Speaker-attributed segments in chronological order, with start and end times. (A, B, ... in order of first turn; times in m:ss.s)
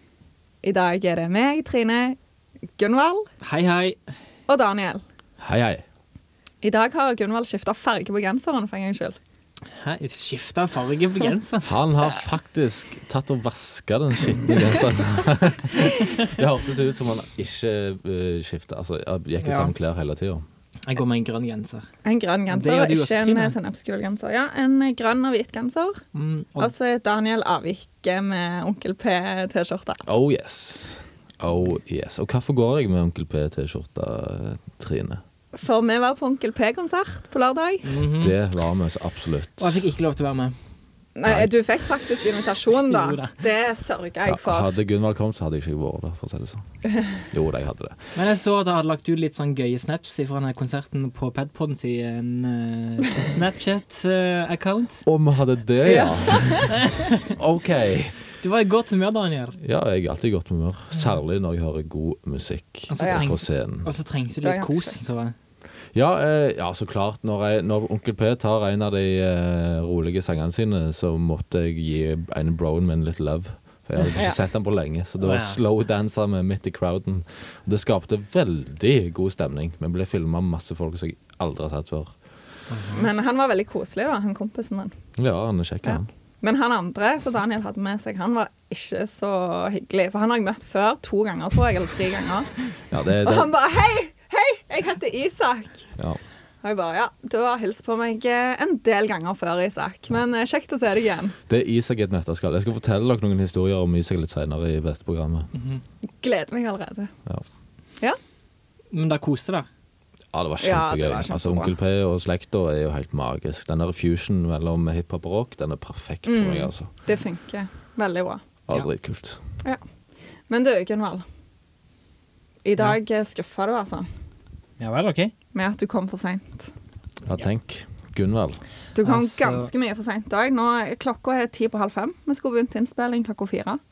0:00.6-0:02.2 A
0:02.8-0:03.3 A
0:03.4-0:04.0 B
0:04.5-0:05.0 A
0:05.4-0:05.8 C
0:06.6-0:09.2 A
0:09.7-0:11.8 B
0:11.6-0:20.4 C
0:19.4-0:19.7 B
0:20.9-0:21.9 B
0:22.0-0:26.0 A
0:22.5-0:23.6 B
0:26.1-0:26.7 B
0:26.6-0:30.0 A
0:30.0-0:35.2 C
0:35.6-0:37.9 A
0:37.8-0:38.4 B
0:38.2-0:39.8 C
0:39.6-0:40.6 B
0:41.2-0:44.7 A
0:41.2-0:41.5 C
0:42.9-0:43.4 B
0:44.2-0:48.1 C
0:48.2-0:55.1 B
0:55.0-0:58.2 C
0:55.8-0:56.7 A
0:56.7-0:57.3 B
0:58.4-0:59.6 B
0:59.6-1:03.9 C
1:02.9-1:05.4 B
1:03.0-1:03.3 A
1:04.4-1:05.1 A
1:05.9-1:22.2 C
1:15.2-1:15.6 B
1:22.7-1:23.1 B
1:22.9-1:24.9 A
1:25.2-1:26.1 C
1:25.9-1:32.5 A
1:32.9-1:33.5 C
1:33.2-1:35.9 A
1:36.6-1:41.4 A
1:41.5-1:45.5 C
1:45.5-1:45.8 B
1:46.2-1:47.1 A
1:48.9-1:49.7 B
1:50.3-1:56.9 C
1:50.6-1:51.7 A
1:56.2-1:58.4 A
1:58.7-1:59.4 C
2:00.5-2:01.2 A
2:02.6-2:04.1 A
2:04.8-2:05.3 B
2:05.5-2:06.7 A
2:07.2-2:08.6 C
2:09.0-2:13.8 A
2:09.0-2:09.7 B